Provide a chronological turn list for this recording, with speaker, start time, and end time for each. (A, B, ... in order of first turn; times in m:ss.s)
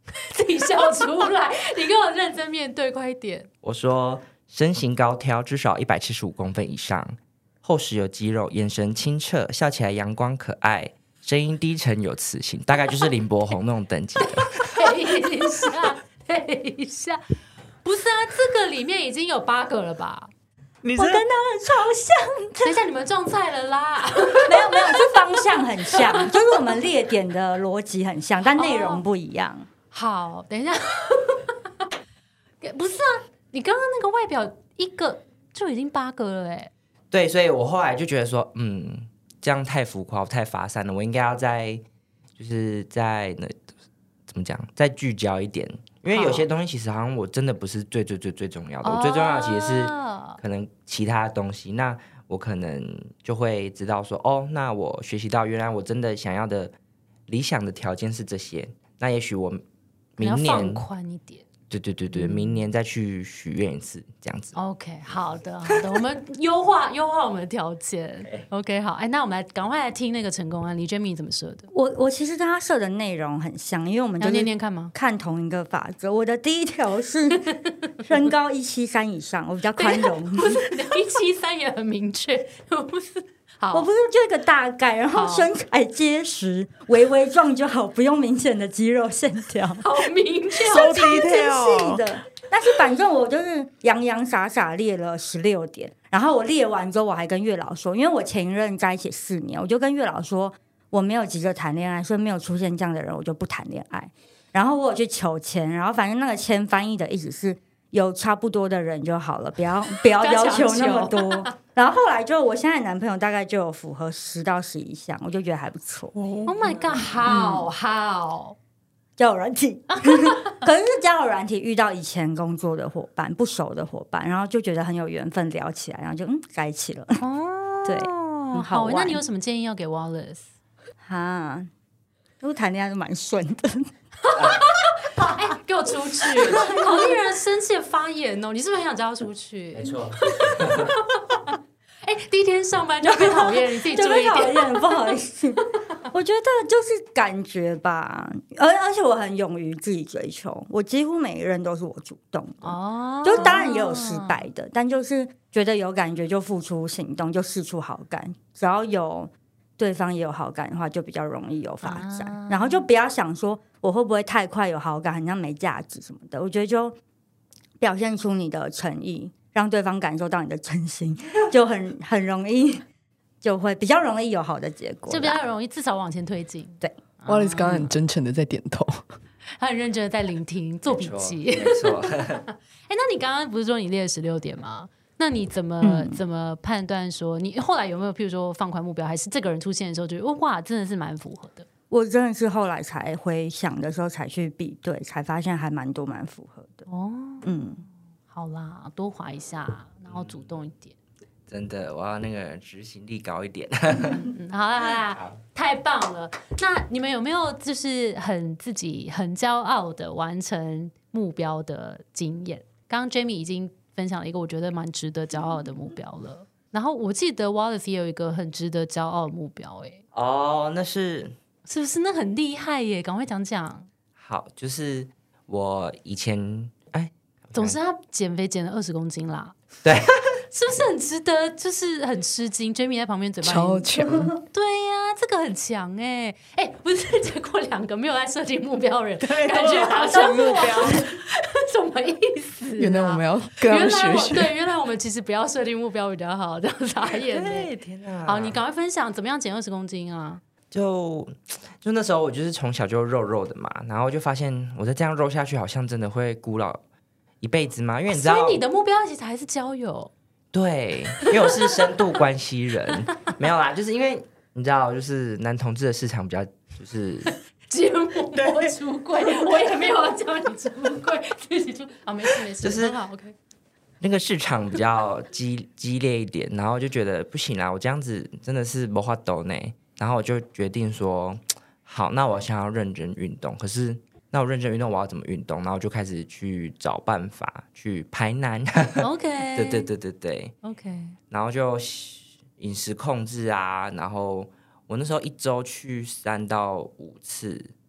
0:00.3-0:03.5 A
0:03.6-0:14.9 B
0:14.6-0:17.2 A
0:17.8-0:20.3 A
0:20.8-0:21.2 C
0:21.0-0:22.8 D
0:22.6-0:26.6 A
0:24.5-0:29.7 D
0:28.6-0:29.0 A
0:29.9-0:31.5 A
0:32.6-0:36.7 A
0:37.1-0:41.8 B
0:42.4-0:43.6 B
0:44.3-0:56.7 B
0:46.1-0:46.5 A
0:48.8-0:50.4 A
0:57.3-0:59.6 B
1:00.2-1:00.9 B
1:00.2-1:01.4 A
1:01.7-1:04.6 B
1:02.1-1:02.6 A
1:04.5-1:11.7 A
1:11.7-1:17.5 D
1:14.2-1:14.9 A
1:18.0-1:20.7 D
1:19.8-1:23.9 A
1:23.7-1:29.8 D
1:25.1-1:25.5 A
1:29.8-1:31.2 A
1:30.6-1:32.0 C
1:30.8-1:56.2 D
1:50.1-1:51.5 A
1:56.2-1:57.0 C
1:56.5-1:58.6 A
1:57.2-1:57.7 D
1:59.2-2:07.2 D
1:59.9-2:00.6 A
2:07.2-2:10.5 A
2:07.9-2:09.2 D
2:11.0-2:11.7 D
2:12.4-2:13.9 D
2:14.2-2:21.5 A
2:14.4-2:14.6 B
2:16.5-2:17.1 D
2:19.8-2:20.9 B
2:22.0-2:25.0 A
2:23.0-2:47.0 D
2:32.6-2:34.5 A
2:41.8-2:42.9 A
2:47.8-2:52.8 D
2:53.4-2:55.4 D
2:55.1-2:57.9 A
2:57.3-2:59.1 E
2:59.6-3:11.7 A
3:00.8-3:02.4 B
3:05.8-3:06.2 D
3:11.9-3:16.9 D
3:16.9-3:17.5 A
3:17.4-3:17.8 D
3:18.3-3:21.0 A
3:20.1-3:20.5 B
3:21.5-3:24.3 B
3:24.0-3:40.0 A
3:25.1-3:25.4 B
3:40.1-3:41.3 B
3:41.7-3:43.9 A
3:44.2-3:47.8 B
3:47.5-3:49.6 A
3:49.8-3:50.4 B
3:50.5-4:07.7 A
3:53.4-3:54.4 E
3:59.2-4:01.0 C
4:02.8-4:04.6 E
4:07.3-4:08.6 B
4:08.2-4:10.4 A
4:10.7-4:16.8 B
4:17.4-4:18.6 B
4:18.1-4:20.1 A
4:20.5-4:27.3 B
4:21.2-4:21.8 A
4:27.3-4:33.3 A
4:28.4-4:28.7 B
4:32.6-4:33.0 B
4:34.0-4:50.6 B
4:49.0-4:49.9 A
4:50.6-4:51.2 A
4:51.3-4:57.7 B